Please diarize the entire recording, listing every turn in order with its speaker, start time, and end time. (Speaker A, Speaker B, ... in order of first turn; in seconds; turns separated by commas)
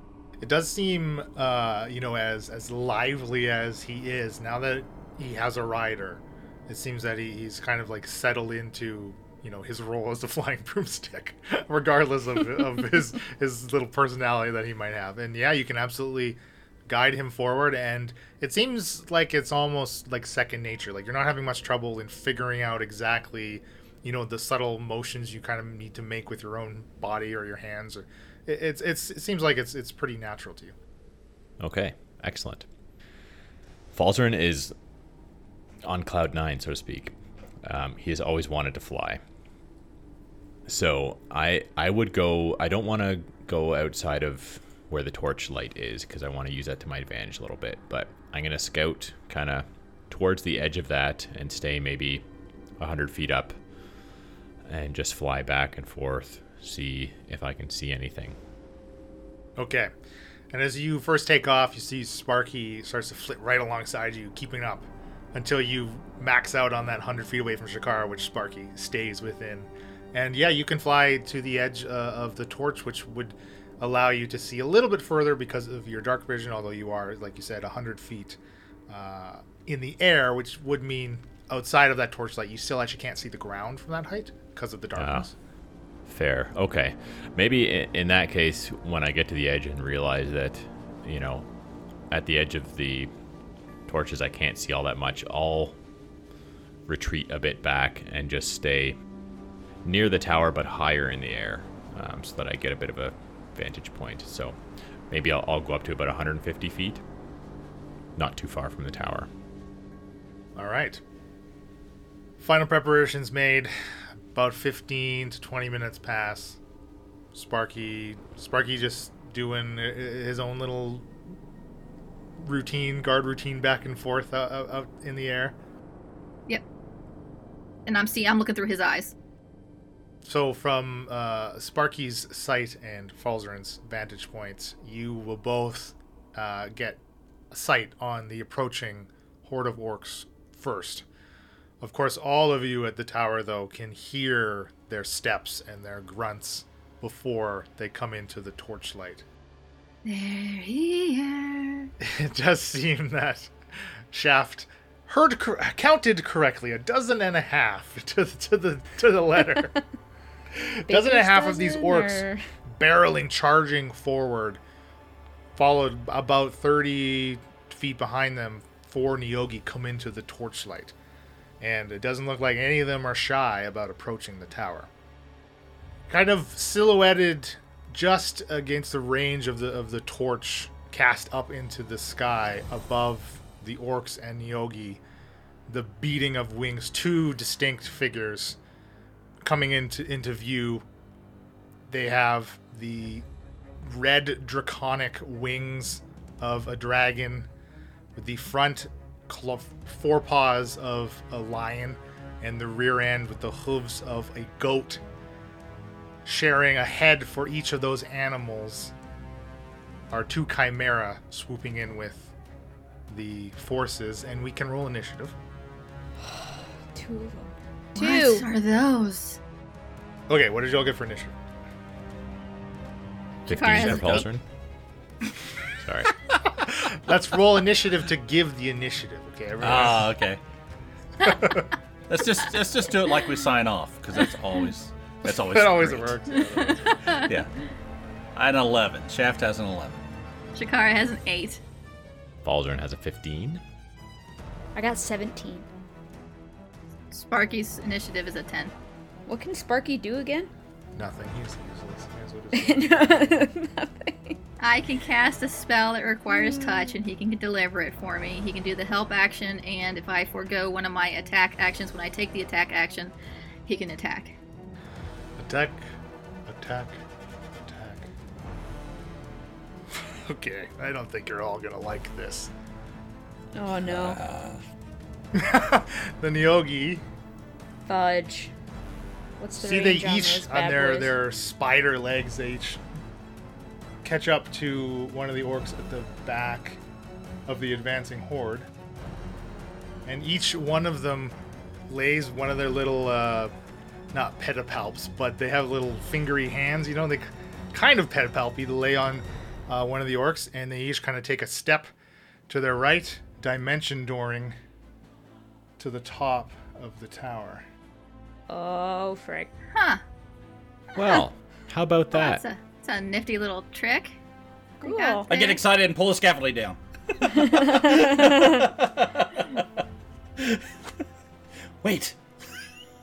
Speaker A: 0.4-30.7, Speaker B: 31.6-32.7, Speaker B: 33.9-34.7, Speaker B: 35.8-39.2, Speaker B: 40.7-52.3, Speaker B: 52.8-53.6, Speaker B: 54.6-58.4, Speaker A: 59.6-59.9, Speaker A: 60.5-85.3, Speaker B: 85.0-85.3, Speaker B: 86.1-91.5, Speaker B: 92.1-93.1, Speaker B: 93.9-95.8, Speaker B: 96.9-99.0, Speaker B: 99.8-104.6, Speaker B: 105.1-107.0, Speaker B: 108.2-109.3, Speaker A: 110.6-111.0, Speaker A: 112.4-116.6, Speaker A: 117.3-121.1, Speaker A: 122.4-125.6, Speaker C: 127.9-129.1, Speaker A: 130.2-137.0, Speaker A: 137.5-141.1, Speaker A: 141.8-149.2, Speaker C: 150.1-151.9, Speaker A: 152.0-159.7, Speaker A: 160.5-164.6, Speaker D: 160.9-162.4, Speaker A: 165.6-170.9, Speaker A: 171.6-174.9, Speaker A: 176.1-185.0, Speaker A: 185.7-188.6, Speaker A: 189.4-190.8, Speaker A: 191.9-193.3, Speaker A: 193.8-197.5, Speaker A: 198.2-205.0, Speaker A: 206.2-208.9, Speaker A: 210.1-212.3, Speaker A: 213.1-215.4, Speaker D: 216.2-218.5, Speaker C: 218.0-219.4, Speaker A: 220.3-221.4, Speaker C: 223.5-224.3, Speaker B: 223.5-224.4, Speaker A: 223.8-224.2, Speaker B: 225.8-226.2, Speaker A: 226.3-230.1, Speaker E: 229.6-230.4, Speaker A: 231.2-231.7, Speaker E: 232.1-236.2, Speaker A: 235.3-237.2, Speaker C: 236.4-237.3, Speaker E: 237.2-237.5, Speaker E: 238.3-240.0, Speaker C: 240.6-241.6, Speaker B: 242.4-243.6, Speaker D: 244.8-245.7, Speaker C: 247.1-248.7, Speaker D: 249.3-250.5, Speaker A: 251.0-253.3, Speaker D: 252.5-254.4, Speaker C: 254.6-263.1, Speaker D: 256.3-256.9, Speaker C: 263.7-264.4, Speaker A: 265.4-265.9, Speaker A: 266.5-267.0, Speaker A: 267.6-268.1, Speaker A: 269.9-272.5, Speaker D: 273.6-274.2, Speaker E: 273.9-274.6, Speaker A: 275.3-277.0, Speaker D: 277.9-278.5, Speaker D: 279.4-281.1, Speaker A: 279.6-282.8, Speaker A: 284.0-286.8, Speaker A: 287.5-288.7, Speaker A: 290.1-291.4, Speaker A: 291.9-293.5, Speaker A: 294.1-301.9, Speaker A: 302.5-304.6, Speaker A: 305.8-307.7, Speaker D: 308.5-309.5, Speaker C: 309.7-310.0, Speaker B: 310.9-312.4, Speaker C: 312.1-314.2, Speaker D: 314.8-315.3, Speaker C: 314.8-315.6, Speaker E: 315.3-319.6, Speaker D: 317.3-318.7, Speaker E: 320.4-320.6, Speaker E: 321.8-322.2